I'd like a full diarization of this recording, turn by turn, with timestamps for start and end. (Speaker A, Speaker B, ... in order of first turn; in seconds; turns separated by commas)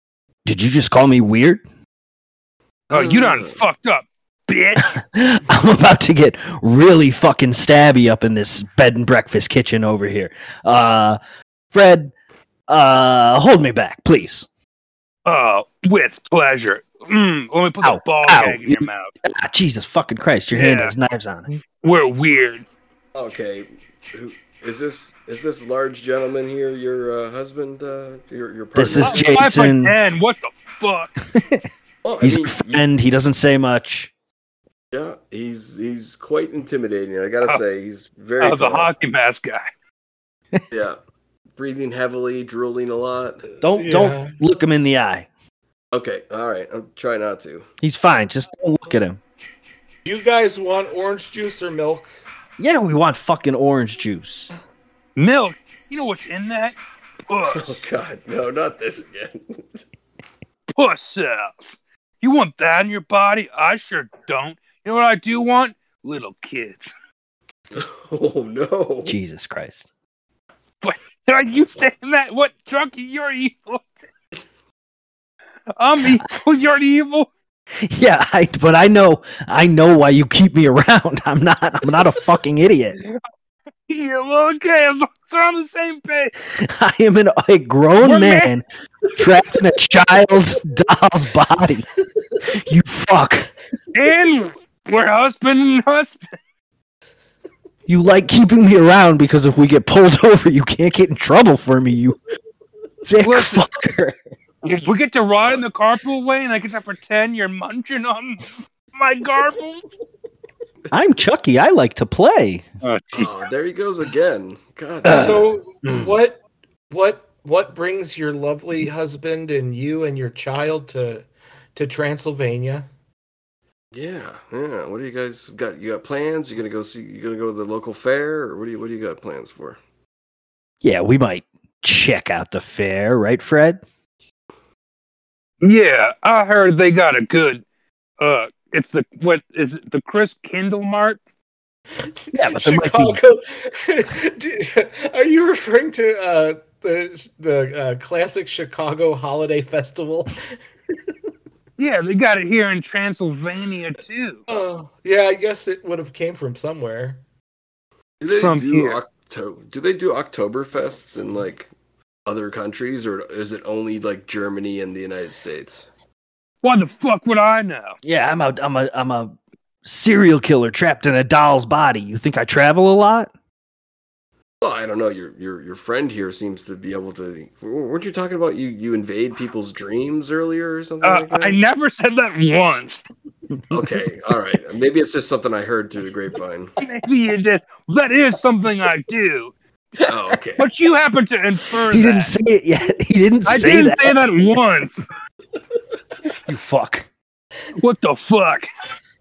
Speaker A: 0.4-1.6, Speaker B: 2.9-3.6, Speaker C: 2.9-4.9, Speaker A: 4.8-11.2, Speaker A: 11.7-12.1, Speaker A: 12.7-14.5, Speaker C: 15.2-19.1, Speaker A: 17.8-21.5, Speaker C: 20.5-20.9, Speaker C: 21.5-22.6, Speaker B: 23.1-29.4, Speaker A: 28.7-29.9, Speaker C: 28.9-31.2, Speaker A: 31.3-31.6, Speaker B: 32.0-32.8, Speaker A: 32.2-34.1, Speaker B: 34.9-38.9, Speaker C: 38.4-39.6, Speaker B: 40.7-41.0, Speaker B: 41.6-43.5, Speaker A: 43.6-45.3, Speaker D: 43.7-44.3, Speaker B: 45.9-47.7, Speaker A: 47.8-49.2, Speaker D: 50.0-52.1, Speaker A: 52.6-54.5, Speaker C: 55.1-56.8, Speaker C: 57.3-57.8, Speaker B: 57.5-59.8, Speaker C: 60.7-66.9, Speaker B: 67.7-69.1, Speaker A: 69.0-69.8, Speaker C: 70.8-73.9, Speaker C: 75.8-77.3, Speaker A: 77.8-83.0, Speaker C: 83.9-86.3, Speaker A: 86.5-88.6, Speaker C: 88.0-88.5, Speaker A: 89.2-91.9, Speaker A: 92.4-93.5, Speaker C: 93.9-96.2, Speaker A: 97.8-102.2, Speaker A: 103.0-104.2, Speaker C: 103.2-103.7, Speaker C: 104.6-109.9, Speaker A: 110.9-112.7, Speaker C: 112.8-113.3, Speaker B: 113.2-115.5, Speaker A: 115.0-116.1, Speaker D: 115.1-122.9, Speaker B: 123.9-129.8, Speaker A: 130.8-133.8, Speaker C: 135.6-137.6, Speaker C: 138.2-141.2, Speaker D: 142.0-150.4, Speaker A: 142.3-143.2, Speaker C: 151.8-154.4, Speaker D: 154.5-157.2, Speaker B: 158.2-161.7, Speaker C: 158.4-159.0, Speaker B: 162.2-165.9, Speaker C: 166.6-167.9, Speaker A: 168.0-169.3, Speaker A: 169.8-173.3, Speaker B: 174.6-181.6, Speaker C: 181.0-183.0, Speaker B: 183.7-186.7, Speaker C: 186.8-189.5, Speaker B: 190.0-190.7, Speaker C: 190.6-192.3, Speaker A: 191.9-194.2, Speaker C: 193.4-195.0, Speaker A: 196.5-197.1, Speaker C: 197.8-198.7